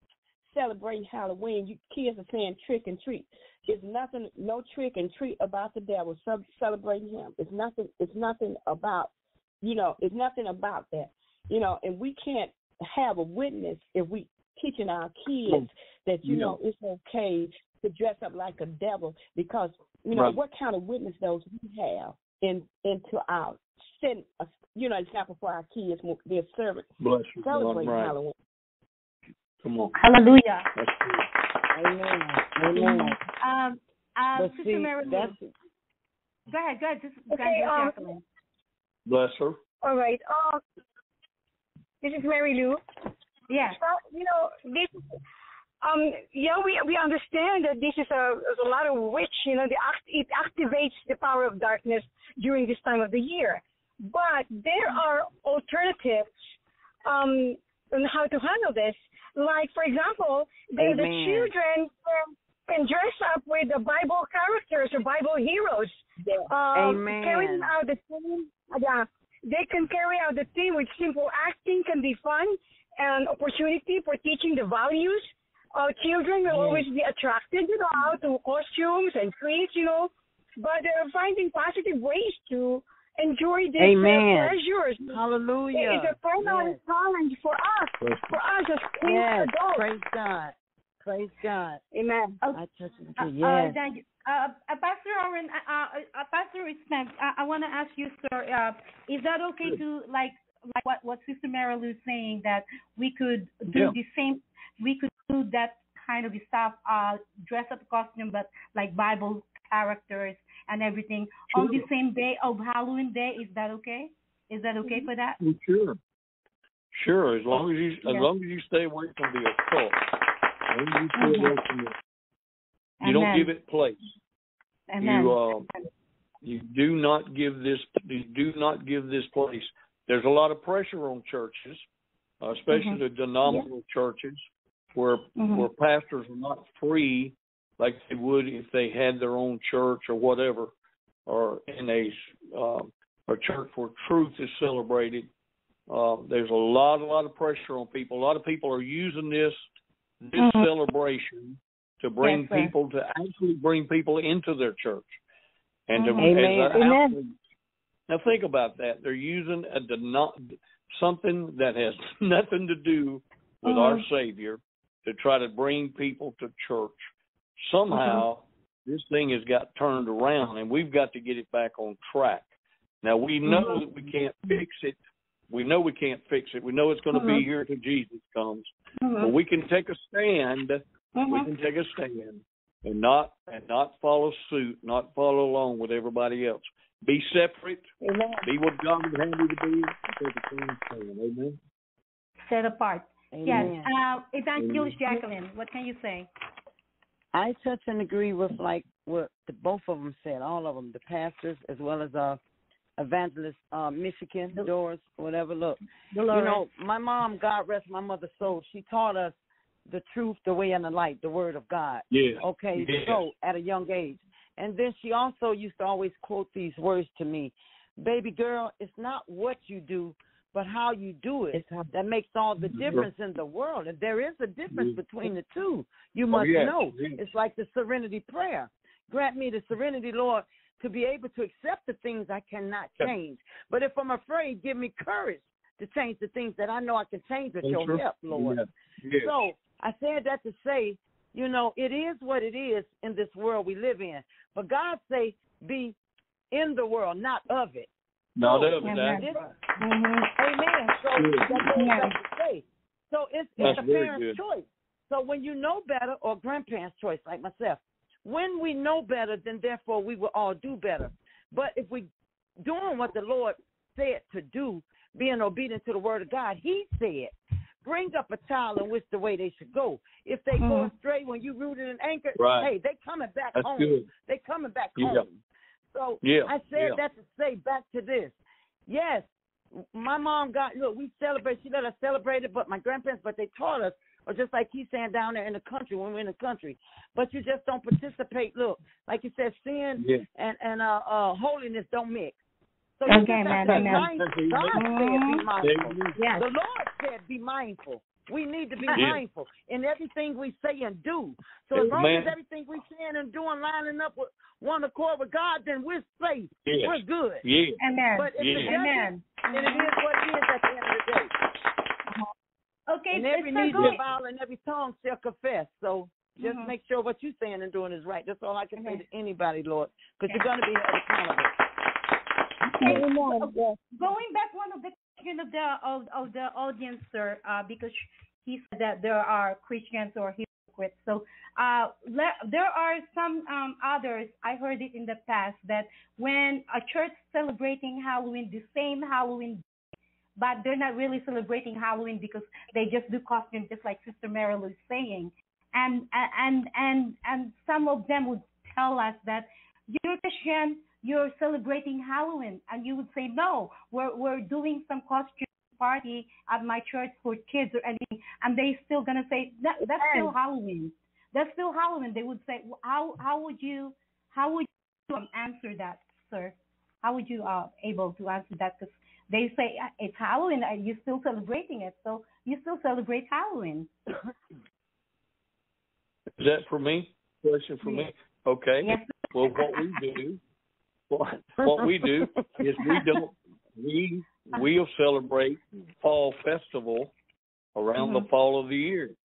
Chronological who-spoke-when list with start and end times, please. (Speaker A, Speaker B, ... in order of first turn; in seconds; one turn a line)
Speaker A: 0.4-26.9
Speaker B: 16.2-16.6
Speaker B: 27.0-28.2
Speaker A: 27.4-28.4
Speaker B: 29.6-29.9
Speaker C: 29.9-30.7
Speaker B: 30.8-31.3
Speaker D: 31.7-33.2
Speaker C: 32.8-35.4
Speaker D: 34.4-35.5
Speaker C: 36.5-38.2
Speaker E: 37.3-38.1
Speaker B: 39.1-39.6
Speaker E: 39.8-40.6
Speaker E: 42.0-42.8
Speaker C: 43.5-43.8
Speaker E: 43.7-44.9
Speaker E: 45.8-56.3
Speaker E: 57.1-85.2
Speaker D: 60.8-61.5
Speaker D: 66.7-67.7
Speaker D: 76.5-76.8
Speaker D: 83.8-86.8
Speaker E: 85.7-89.9
Speaker B: 88.0-88.3
Speaker D: 89.0-91.8
Speaker E: 91.9-92.4
Speaker D: 92.5-93.8
Speaker C: 93.2-115.4
Speaker B: 103.7-104.0
Speaker B: 111.5-111.9
Speaker B: 115.4-116.0
Speaker B: 116.9-120.0
Speaker B: 120.7-121.9
Speaker C: 121.2-121.5
Speaker C: 123.0-123.5
Speaker B: 123.0-124.0
Speaker C: 124.9-125.8
Speaker B: 125.0-125.7
Speaker B: 126.4-131.8
Speaker B: 132.4-134.4
Speaker C: 132.7-133.7
Speaker B: 134.9-140.7
Speaker C: 135.4-135.7
Speaker B: 141.3-145.3
Speaker B: 145.9-149.6
Speaker B: 150.2-155.2
Speaker C: 150.4-150.7
Speaker C: 152.2-152.7
Speaker D: 152.3-152.7
Speaker B: 155.9-157.4
Speaker C: 155.9-156.8
Speaker D: 156.2-157.1
Speaker B: 158.1-167.0
Speaker C: 163.7-164.1
Speaker B: 167.6-172.5
Speaker C: 167.9-168.2
Speaker B: 173.0-175.0
Speaker C: 173.5-173.8
Speaker B: 175.5-187.9
Speaker C: 177.1-177.5
Speaker C: 179.0-179.3
Speaker C: 181.2-181.5
Speaker B: 188.4-191.6
Speaker C: 192.5-196.3
Speaker D: 193.3-193.9
Speaker B: 194.6-195.0
Speaker D: 197.3-202.4
Speaker D: 203.0-238.6
Speaker C: 206.1-206.6
Speaker B: 212.1-213.2
Speaker B: 222.7-223.1
Speaker B: 224.7-225.0
Speaker B: 226.3-227.2
Speaker B: 237.6-239.3
Speaker D: 239.2-246.0
Speaker D: 246.5-249.5
Speaker B: 248.4-249.4
Speaker C: 248.8-250.9
Speaker D: 250.4-275.4
Speaker B: 251.2-251.6
Speaker C: 251.8-252.1
Speaker B: 253.6-254.4
Speaker C: 270.6-270.9
Speaker B: 272.4-272.7
Speaker B: 273.6-274.1
Speaker B: 275.0-275.2
Speaker D: 275.9-278.4
Speaker B: 276.2-277.0
Speaker D: 278.9-292.4
Speaker B: 290.0-290.2
Speaker D: 293.0-307.4
Speaker C: 293.1-294.1
Speaker B: 293.5-294.8
Speaker C: 294.8-295.5
Speaker B: 295.6-296.2
Speaker C: 296.1-296.4
Speaker C: 298.8-299.1
Speaker B: 298.9-299.2
Speaker B: 301.7-302.3
Speaker B: 306.7-307.8
Speaker C: 307.8-309.9
Speaker D: 308.2-311.3
Speaker B: 308.4-308.7
Speaker C: 312.9-314.0
Speaker D: 313.1-321.5
Speaker B: 313.7-314.0
Speaker C: 316.4-316.7
Speaker A: 322.7-323.8
Speaker C: 322.8-339.6
Speaker C: 340.4-373.9
Speaker B: 376.4-380.4
Speaker C: 377.8-378.1
Speaker C: 378.8-380.0
Speaker B: 381.1-387.1
Speaker D: 381.6-383.0
Speaker B: 387.8-389.1
Speaker C: 388.0-388.3